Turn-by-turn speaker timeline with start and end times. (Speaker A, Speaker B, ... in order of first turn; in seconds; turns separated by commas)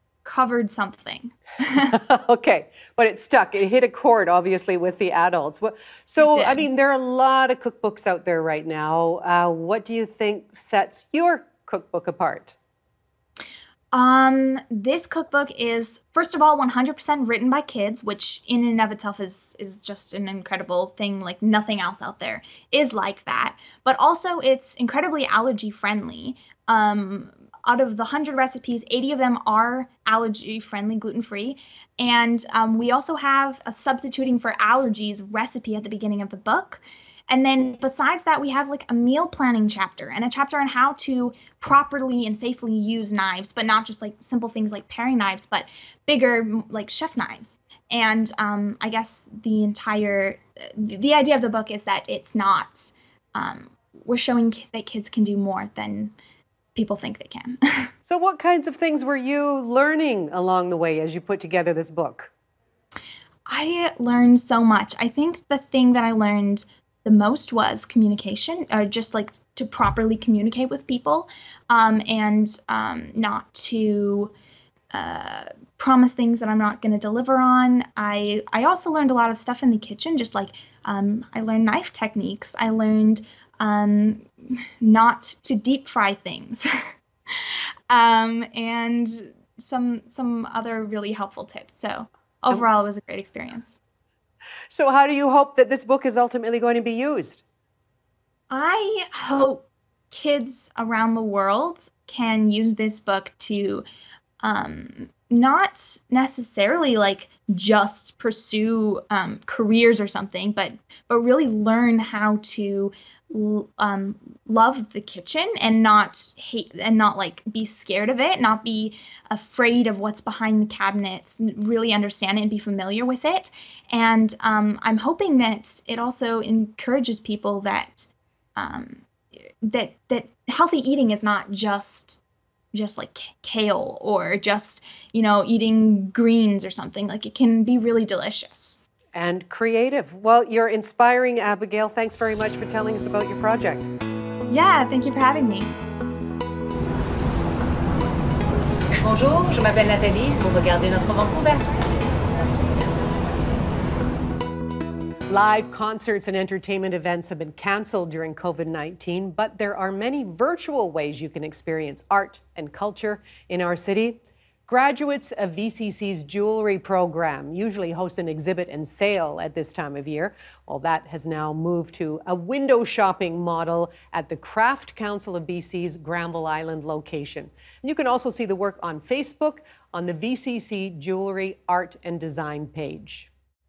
Speaker A: 0.2-1.9, Speaker B: 1.9-12.6, Speaker A: 6.2-6.7, Speaker A: 13.9-56.1, Speaker A: 56.7-57.9, Speaker B: 58.0-62.3, Speaker A: 63.5-74.3, Speaker A: 74.9-84.3, Speaker A: 84.8-86.7, Speaker A: 87.3-93.8, Speaker B: 94.7-97.4, Speaker A: 98.5-103.8, Speaker A: 104.4-129.1, Speaker A: 129.6-132.2, Speaker A: 132.7-138.8, Speaker B: 139.1-143.9, Speaker A: 144.5-145.7, Speaker C: 149.0-151.9, Speaker C: 152.6-152.9, Speaker B: 155.3-183.3